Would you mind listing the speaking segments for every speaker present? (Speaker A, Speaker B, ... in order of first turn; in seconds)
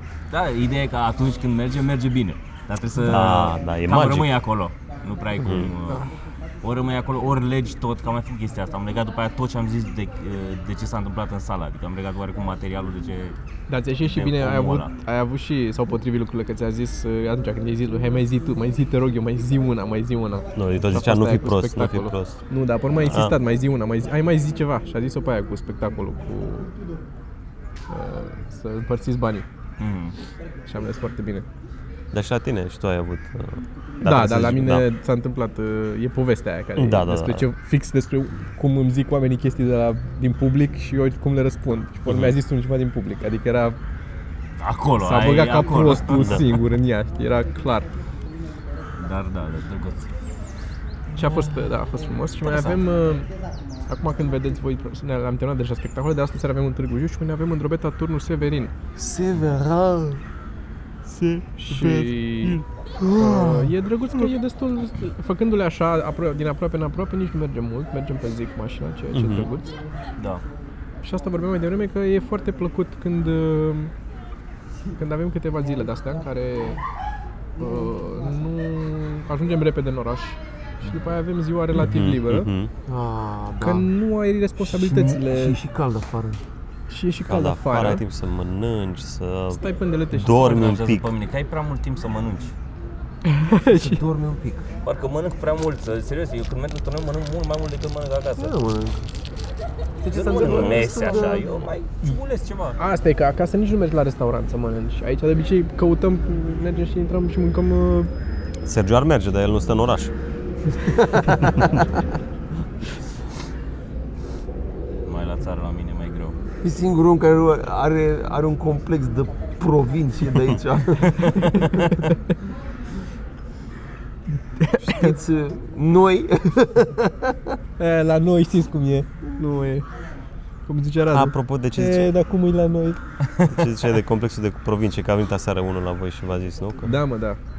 Speaker A: 0.3-13.4, 14.1-14.9, 29.8-30.2, 44.6-46.4, 49.0-50.1, 70.2-70.4, 90.2-92.5, 94.8-98.5, 100.1-102.8, 115.0-116.4
Speaker B: 3.0-4.3, 5.4-5.7, 20.6-22.4, 22.9-23.4, 32.1-34.9, 36.8-37.5, 42.1-42.4, 59.0-60.2, 61.0-64.3, 69.1-69.5, 81.7-82.7, 87.3-91.1, 108.7-110.1, 131.1-132.1, 133.4-136.9
Speaker C: 13.7-26.7, 27.9-29.5, 30.7-31.5, 34.0-43.8, 45.0-47.9, 51.1-53.3, 53.9-58.7, 61.6-62.6, 63.2-69.8, 71.0-73.9, 75.0-76.8, 77.6-82.5, 83.6-85.6, 86.9-88.0, 89.5-90.5, 93.2-94.0, 100.0-101.0, 102.8-108.1, 121.4-122.3, 124.6-125.2, 127.8-129.9, 130.7-133.0, 136.8-137.4
Speaker D: 82.9-83.9, 84.6-86.4, 93.7-94.7, 98.4-99.0, 100.1-101.6, 110.9-111.8, 116.6-121.9, 124.8-127.6